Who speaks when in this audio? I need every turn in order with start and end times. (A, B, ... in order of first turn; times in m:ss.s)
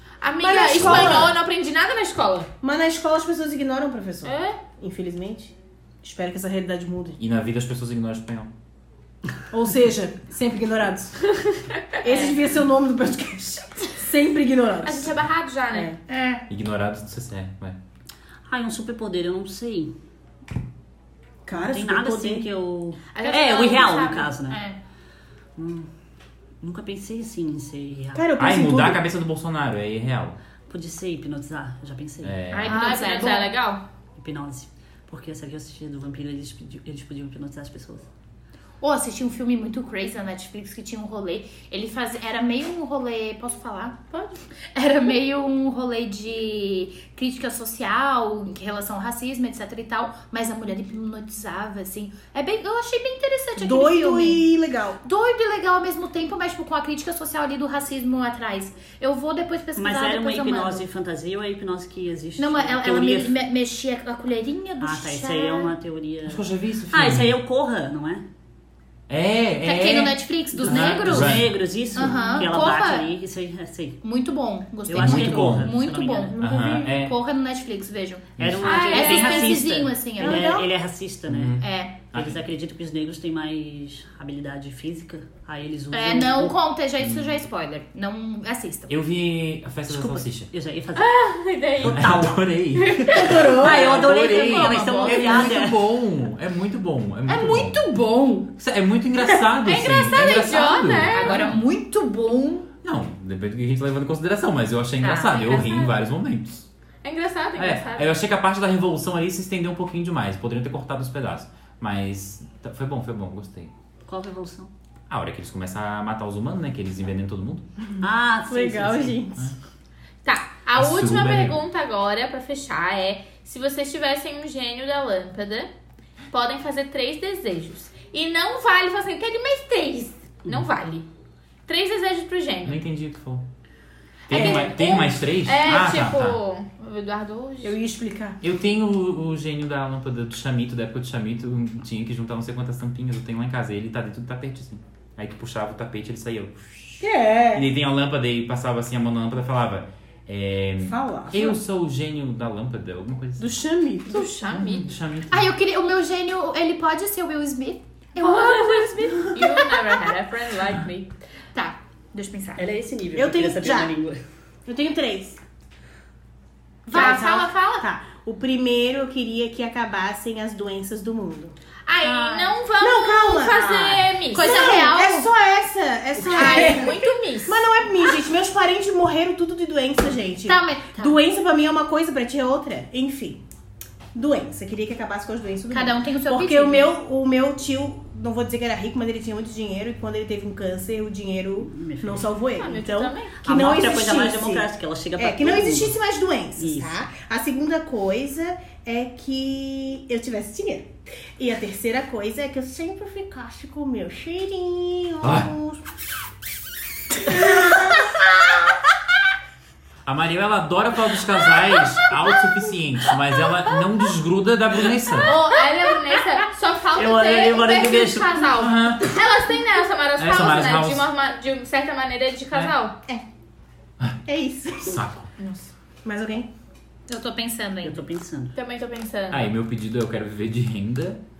0:00.2-0:02.5 A
0:00.4-0:01.3 B
0:00.8-0:01.3 C
0:02.6-0:07.2 B
0:04.2-0:04.6 A
0:07.2-0:08.5 C
0:09.5-0:11.3 B
0:11.9-0:12.4 A
0:12.0-0:15.2 B
0:14.8-0:15.9 A
0:15.7-0:16.4 B
0:16.5-0:17.8 C
0:18.5-0:19.9 D
0:21.4-0:22.5 B
0:21.6-0:24.6 D
0:23.1-0:24.3 A
0:24.5-0:24.8 E
0:25.6-0:25.9 D
0:26.6-0:28.3 D
0:28.1-0:29.0 B
0:28.4-0:30.4 C
0:30.7-0:32.4 D
0:32.2-0:32.9 C
0:32.5-0:33.8 A
0:32.6-0:33.5 E
0:34.2-0:38.0 D
0:38.8-0:54.5 E
0:53.6-0:55.0 B
0:55.0-1:00.8 E
0:59.8-1:03.3 D
1:02.4-1:05.7 E
1:04.8-1:08.2 D
1:06.3-1:07.4 C
1:09.1-1:11.5 C
1:09.6-1:13.1 E
1:10.6-1:14.0 D
1:14.0-1:20.6 E
1:14.9-1:16.4 D
1:14.9-1:15.8 C
1:16.3-1:17.0 B
1:16.4-1:17.2 C
1:18.4-1:18.8 C
1:18.4-1:26.6 D
1:18.6-1:19.5 A
1:20.2-1:20.7 B
1:21.3-1:22.4 C
1:21.6-1:21.9 E
1:25.9-1:28.9 E
1:27.0-1:27.4 C
1:28.9-1:30.5 C
1:29.9-1:31.1 D
1:31.0-1:32.1 A
1:31.8-1:37.8 C
1:31.8-1:32.3 D
1:32.8-1:33.4 A
1:33.2-1:34.0 B
1:33.4-1:35.8 D
1:33.9-1:35.6 E
1:37.3-1:38.5 E
1:38.6-1:41.6 C
1:39.6-1:41.5 A
1:41.1-1:42.7 E
1:42.8-1:46.6 C
1:45.0-1:46.0 E
1:47.0-1:48.2 A
1:47.6-1:53.7 C
1:54.1-1:54.7 D
1:55.1-1:57.6 C
1:58.0-1:59.2 D
1:58.5-1:59.5 B
2:00.2-2:05.7 A
2:00.8-2:01.6 C
2:06.3-2:11.0 A
2:11.7-2:12.8 A
2:12.6-2:13.4 C
2:14.3-2:16.4 C
2:14.3-2:17.8 A
2:14.3-2:14.7 B
2:17.6-2:18.4 B
2:18.4-2:33.5 C
2:27.0-2:27.7 B
2:30.8-2:31.6 B
2:33.4-2:34.4 B
2:34.1-2:34.9 A
2:34.5-2:35.5 C
2:35.3-2:39.9 E
2:38.2-2:41.1 A
2:41.5-2:42.6 E
2:42.6-2:44.2 D
2:43.2-2:43.9 B
2:44.7-2:45.4 B
2:46.8-2:47.5 E
2:46.9-2:51.5 B
2:46.9-2:47.8 A
2:51.9-2:54.8 A
2:52.0-2:52.5 E
2:52.8-3:03.4 B
2:54.3-2:55.3 E
2:56.3-2:56.9 E
2:56.3-2:57.7 A
3:00.4-3:01.2 E
3:04.1-3:25.8 B
3:05.7-3:07.0 E
3:11.7-3:12.3 D
3:12.5-3:13.4 A
3:13.4-3:15.9 D
3:16.6-3:16.9 D
3:25.2-3:25.5 C
3:27.2-3:28.1 B
3:30.0-3:35.4 C
3:35.2-3:43.0 A
3:36.9-3:38.5 D
3:38.5-3:39.2 C
3:40.2-3:41.1 C
3:44.3-3:45.0 B
3:44.8-3:45.3 C
3:45.4-3:45.7 A
3:46.0-3:46.5 B
3:47.1-3:48.0 E
3:47.8-3:48.5 D
3:48.5-3:49.5 A
3:49.3-3:51.2 C